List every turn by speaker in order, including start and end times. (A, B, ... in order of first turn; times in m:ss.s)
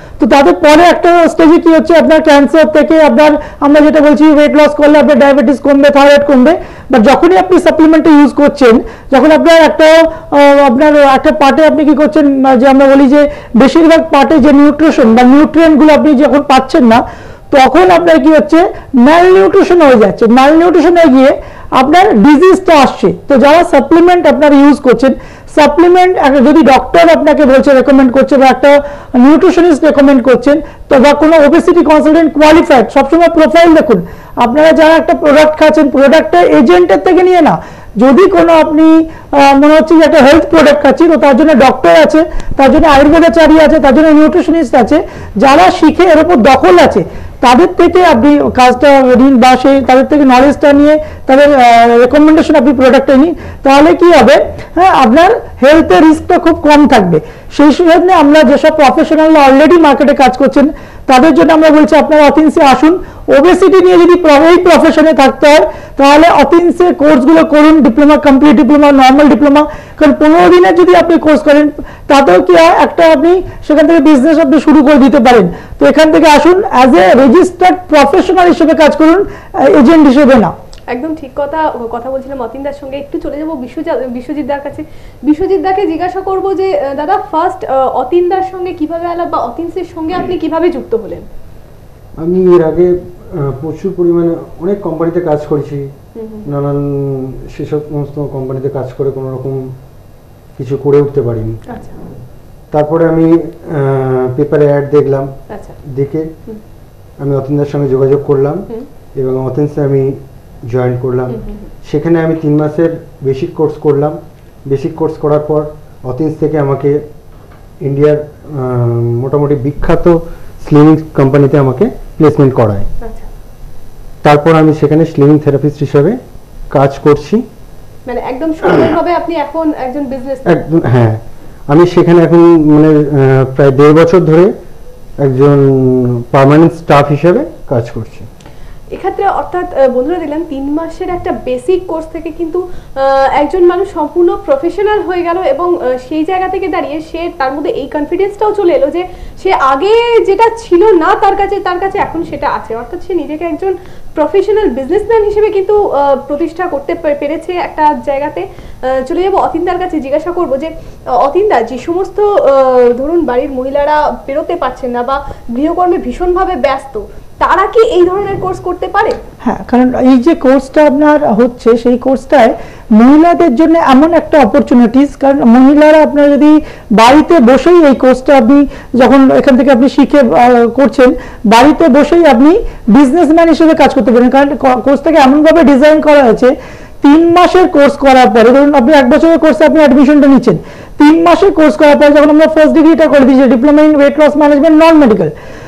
0:00.2-1:20.5 A
1:20.9-1:31.3 B
1:32.2-1:35.9 C
1:36.1-1:36.5 B
1:36.4-1:39.7 C
1:40.6-1:41.6 C
1:41.7-1:42.0 B
1:42.7-1:46.3 C
1:45.5-1:45.8 B
1:47.2-1:57.0 C
1:51.3-1:51.7 B
1:57.8-2:02.9 C
2:03.0-2:03.3 B
2:04.2-2:06.2 C
2:06.7-2:07.4 C
2:08.1-2:10.6 B
2:10.4-2:14.5 C
2:15.2-2:18.3 C
2:18.9-2:49.2 B
2:49.4-3:15.3 A